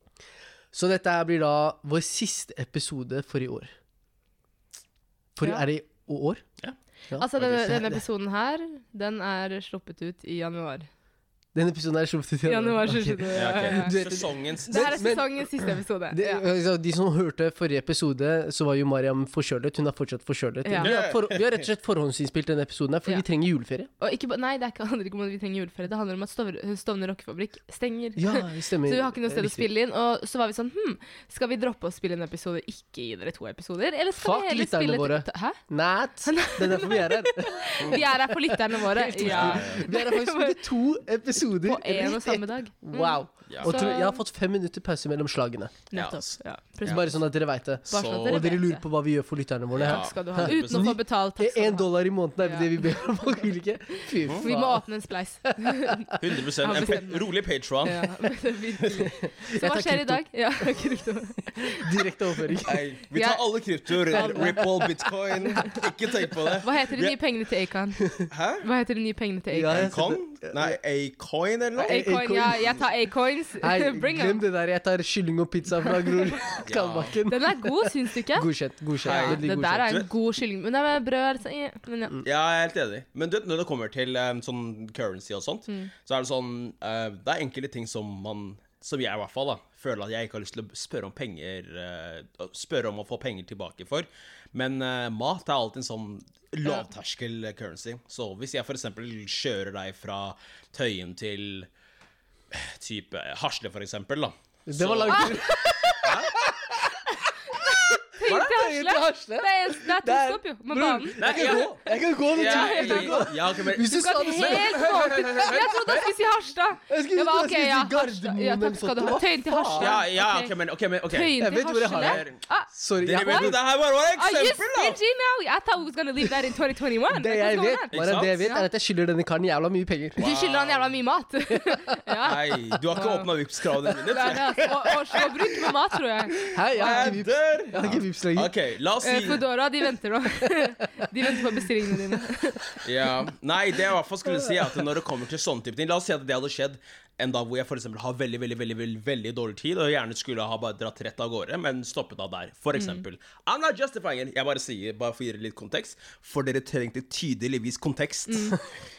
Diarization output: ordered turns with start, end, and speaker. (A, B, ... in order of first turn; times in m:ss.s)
0:00.7-0:03.7 A
0:05.4-0:06.4 A
0:07.1-0:08.0 A
0:07.1-0:10.9 B
0:07.4-0:07.7 C
0:11.5-0:23.9 A
0:12.4-0:14.0 B
0:13.4-0:15.2 C
0:14.7-0:16.4 B
0:20.6-0:20.9 B
0:20.8-0:21.4 C
0:24.0-0:35.6 B
0:28.2-0:29.7 A
0:34.2-0:45.8 A
0:36.2-0:40.6 B
0:39.2-0:39.9 C
0:41.4-0:44.2 B
0:43.5-0:44.0 C
0:45.9-0:47.2 B
0:45.9-0:47.0 C
0:46.8-0:54.9 A
0:47.9-0:48.8 B
0:47.9-0:48.5 C
0:49.8-0:51.0 C
0:49.8-0:52.9 B
0:54.1-0:57.3 B
0:55.5-0:56.2 A
0:56.2-0:58.2 C
0:57.8-1:02.6 B
0:59.5-1:00.2 A
1:01.7-1:02.9 A
1:02.6-1:07.2 C
1:03.1-1:05.8 B
1:04.1-1:04.7 A
1:06.5-1:09.9 B
1:08.3-1:08.7 C
1:09.5-1:10.8 A
1:09.7-1:12.7 C
1:11.8-1:12.9 A
1:11.8-1:14.4 B
1:13.6-1:19.9 A
1:15.9-1:16.4 B
1:16.6-1:17.2 C
1:17.3-1:22.2 B
1:19.0-1:20.1 C
1:22.2-1:41.7 C
1:42.5-1:45.4 C
1:44.7-1:56.1 A
1:45.1-1:46.1 B
1:46.0-1:46.5 C
1:47.5-2:00.5 B
1:48.2-1:48.6 C
1:51.2-1:56.1 C
1:56.9-2:00.0 A
1:59.8-2:02.4 C
2:01.1-2:02.7 B
2:01.4-2:03.6 A
2:03.0-2:05.0 C
2:03.2-2:03.6 B
2:04.1-2:08.7 B
2:07.1-2:10.2 A
2:07.9-2:08.5 C
2:10.2-2:11.0 C
2:10.2-2:13.3 B
2:12.2-2:15.7 C
2:14.0-2:17.1 B
2:16.4-2:19.4 C
2:16.5-2:18.5 A
2:19.0-2:22.8 B
2:22.8-2:38.7 C
2:24.4-2:24.8 A
2:32.8-2:33.0 B
2:38.3-2:38.6 B